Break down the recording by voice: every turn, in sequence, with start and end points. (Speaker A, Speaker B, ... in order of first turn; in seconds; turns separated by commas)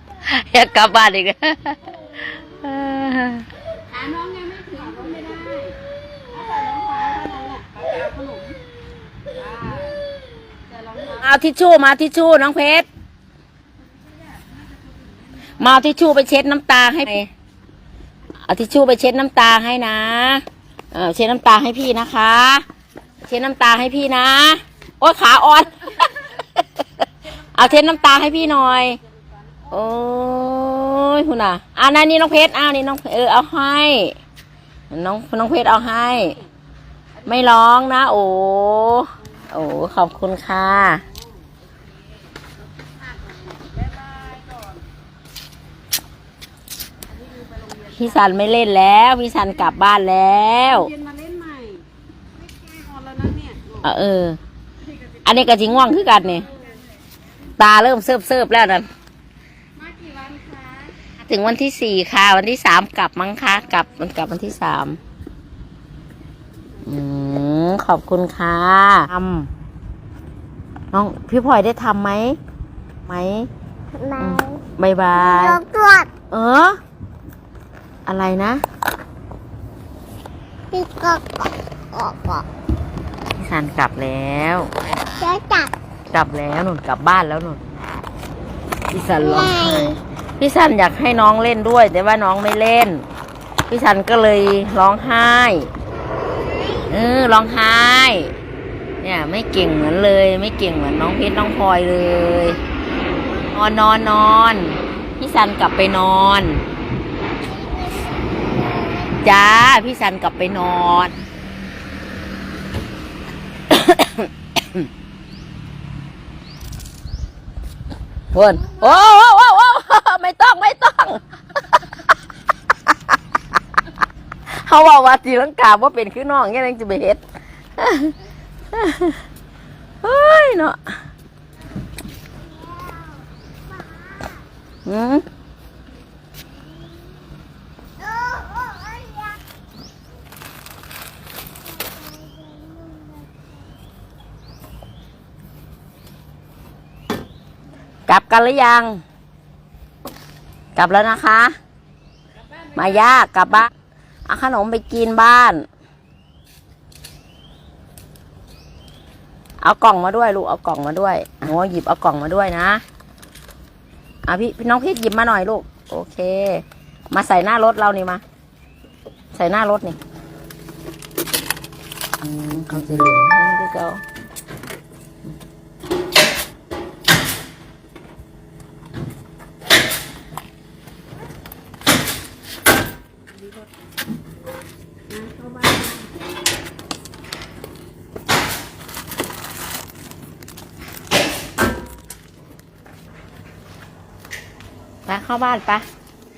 Speaker A: 0.2-1.8, Speaker A: 2.3-3.5, Speaker B: 3.9-5.8, Speaker B: 6.3-8.6, Speaker B: 9.4-10.0, Speaker B: 10.7-11.1, Speaker A: 11.1-12.9, Speaker A: 15.6-17.3, Speaker A: 18.5-22.6, Speaker A: 23.3-29.0, Speaker A: 29.7-34.1, Speaker A: 34.9-36.4, Speaker A: 37.2-41.0, Speaker B: 43.6-44.6, Speaker B: 47.3-47.8, Speaker A: 47.9-50.9, Speaker B: 50.9-51.8, Speaker B: 52.7-53.7, Speaker A: 53.8-54.4, Speaker A: 55.2-56.5, Speaker A: 57.6-58.9, Speaker B: 59.8-60.9, Speaker A: 61.2-65.0, Speaker A: 66.8-69.5, Speaker A: 70.9-72.4, Speaker A: 73.1-73.5, Speaker C: 73.9-74.6, Speaker A: 74.2-75.6, Speaker C: 75.2-76.1, Speaker A: 76.3-76.8, Speaker A: 78.1-78.6, Speaker C: 80.7-82.5, Speaker A: 83.4-84.7, Speaker C: 85.2-85.7, Speaker A: 86.1-87.6, Speaker A: 88.9-93.0, Speaker C: 89.2-90.0, Speaker A: 93.7-95.7, Speaker A: 96.9-98.3, Speaker A: 99.0-102.6, Speaker A: 103.5-106.6, Speaker A: 109.2-111.1, Speaker A: 113.7-114.8, Speaker A: 118.3-121.2, Speaker A: 124.5-127.2, Speaker A: 127.8-128.2, Speaker A: 128.7-129.2, Speaker A: 130.0-130.8, Speaker C: 132.4-134.4, Speaker A: 134.8-135.2, Speaker C: 138.0-139.4, Speaker C: 141.7-143.4, Speaker A: 148.1-149.0, Speaker A: 150.8-151.6, Speaker A: 152.7-153.7, Speaker A: 154.3-155.6, Speaker A: 159.6-162.8, Speaker A: 164.2-168.2, Speaker A: 169.3-170.0, Speaker A: 172.2-174.0, Speaker B: 185.4-185.7, Speaker A: 195.1-195.8